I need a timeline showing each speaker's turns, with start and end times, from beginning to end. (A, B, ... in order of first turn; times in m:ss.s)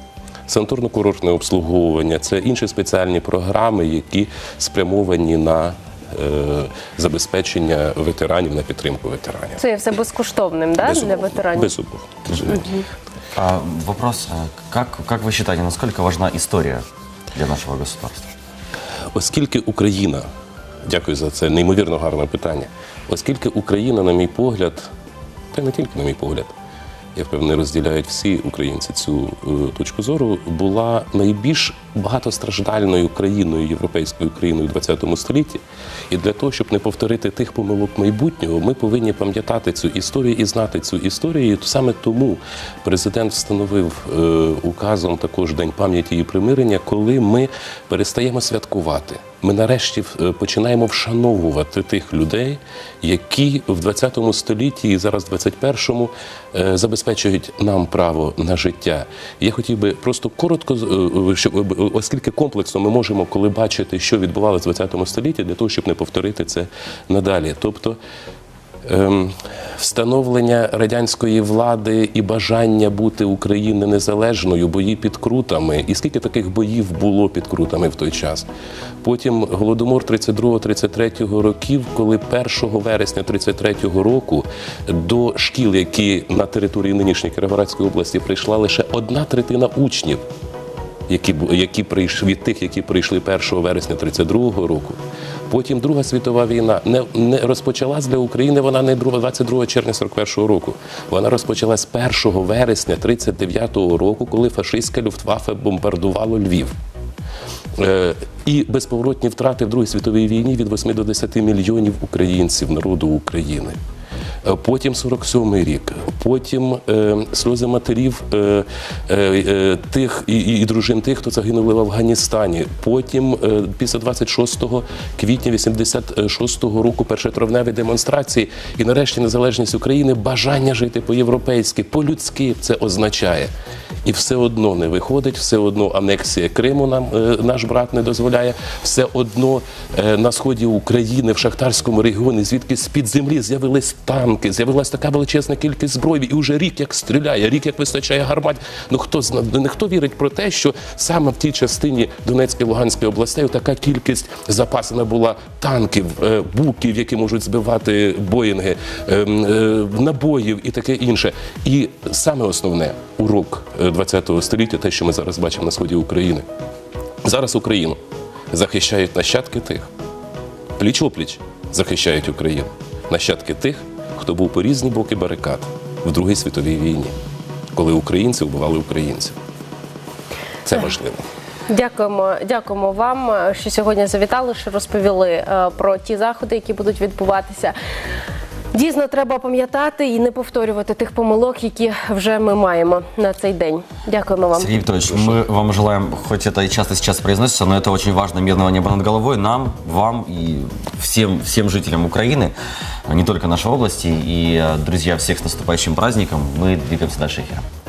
0:00.5-0:09.6 A
0:09.6-0:11.7 B
0:10.8-0:12.7 A
0:12.5-0:12.8 B
0:13.3-0:18.3 C
0:19.1-0:20.2 A
0:20.8-0:24.9 A
0:25.5-0:26.5 A
0:27.1-1:08.0 A
1:08.8-1:18.5 A
1:19.0-1:30.2 A
1:31.1-1:35.0 A
1:35.5-1:46.7 A
1:47.8-1:53.8 A
1:54.4-2:13.5 A
2:14.0-2:46.4 A
2:47.2-2:48.0 A
2:48.5-2:49.9 A
2:50.8-2:57.1 A
2:57.7-2:59.4 A
3:00.6-3:01.2 A
3:01.7-3:07.7 B
3:08.7-3:14.7 B
3:14.5-3:22.5 C
3:23.0-3:27.6 C